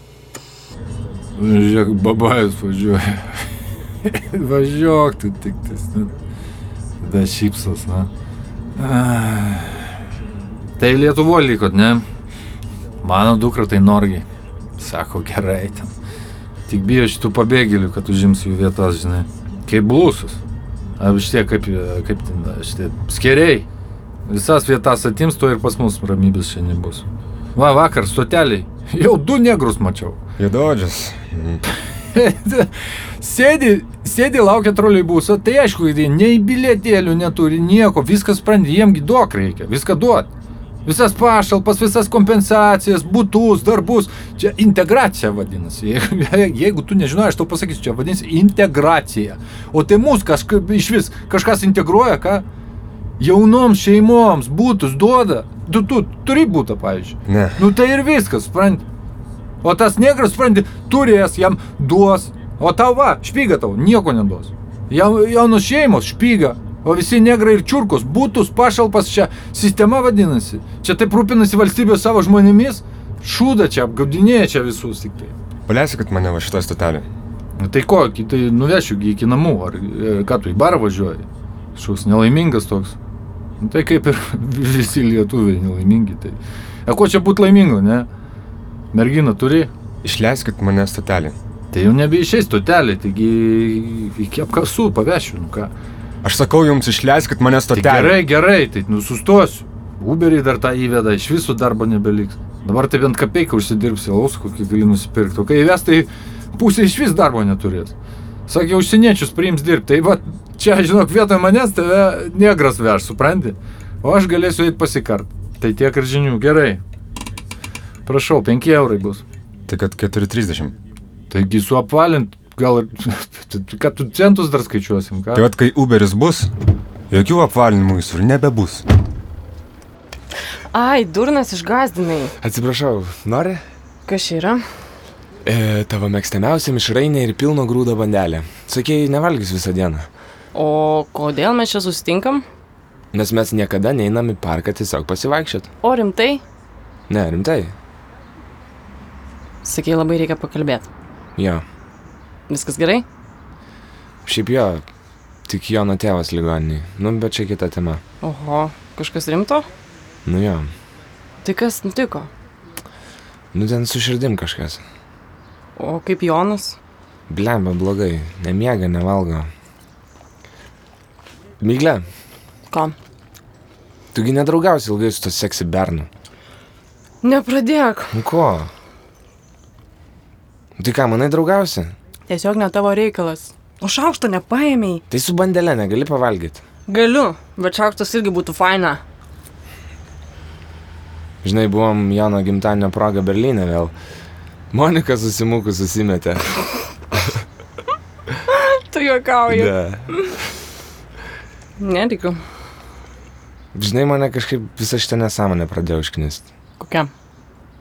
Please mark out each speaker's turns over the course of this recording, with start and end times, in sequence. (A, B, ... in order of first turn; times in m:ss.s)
0:01.4-0:03.5 A
0:04.0-0:06.1 A
0:07.0-0:08.1 A
0:08.8-0:09.9 A
0:10.8-0:12.0 A
0:13.0-0:14.2 A
0:14.8-0:15.9 A
0:16.7-0:20.4 A
0:21.0-0:23.7 A
0:24.2-0:30.2 A
0:30.4-0:31.6 B
0:32.1-0:40.3 A
0:40.8-0:52.4 A
0:53.2-0:58.8 A
0:57.3-0:57.6 B
0:59.6-1:15.3 A
1:15.7-1:17.0 B
1:17.6-1:22.9 A
1:23.6-1:28.1 A
1:28.9-1:29.7 A
1:30.0-1:31.4 B
1:31.7-1:35.7 A
1:36.2-1:38.2 B
1:37.7-1:47.9 A
1:48.5-1:56.8 A
1:58.0-1:59.2 A
1:59.7-2:00.7 B
2:01.3-2:05.4 A
2:05.3-2:06.5 B
2:07.1-2:08.8 B
2:10.7-2:12.3 C
2:12.4-2:13.6 D
2:14.0-2:14.6 C
2:15.4-2:20.1 D
2:20.5-2:22.4 C
2:23.1-2:25.7 D
2:25.8-2:26.4 C
2:27.1-2:27.7 D
2:29.6-2:30.9 C
2:31.4-2:31.6 D
2:32.5-2:33.0 C
2:34.2-2:34.8 D
2:35.5-2:38.0 D
2:38.2-2:39.7 C
2:40.2-2:40.7 D
2:41.4-2:42.3 C
2:43.5-2:44.8 D
2:45.8-2:46.8 C
2:47.3-2:49.5 D
2:51.6-2:52.0 D
2:52.7-2:53.0 C
2:54.1-2:56.1 D
2:57.2-2:58.1 C
2:58.1-2:58.7 D
3:00.8-3:01.9 D
3:02.3-3:05.0 C
3:05.1-3:06.6 D
3:06.9-3:09.0 C
3:11.4-3:13.9 D
3:14.7-3:16.6 D
3:18.5-3:19.7 C
3:19.5-3:20.0 D
3:21.8-3:22.4 C
3:23.7-3:26.5 D
3:26.8-3:27.1 C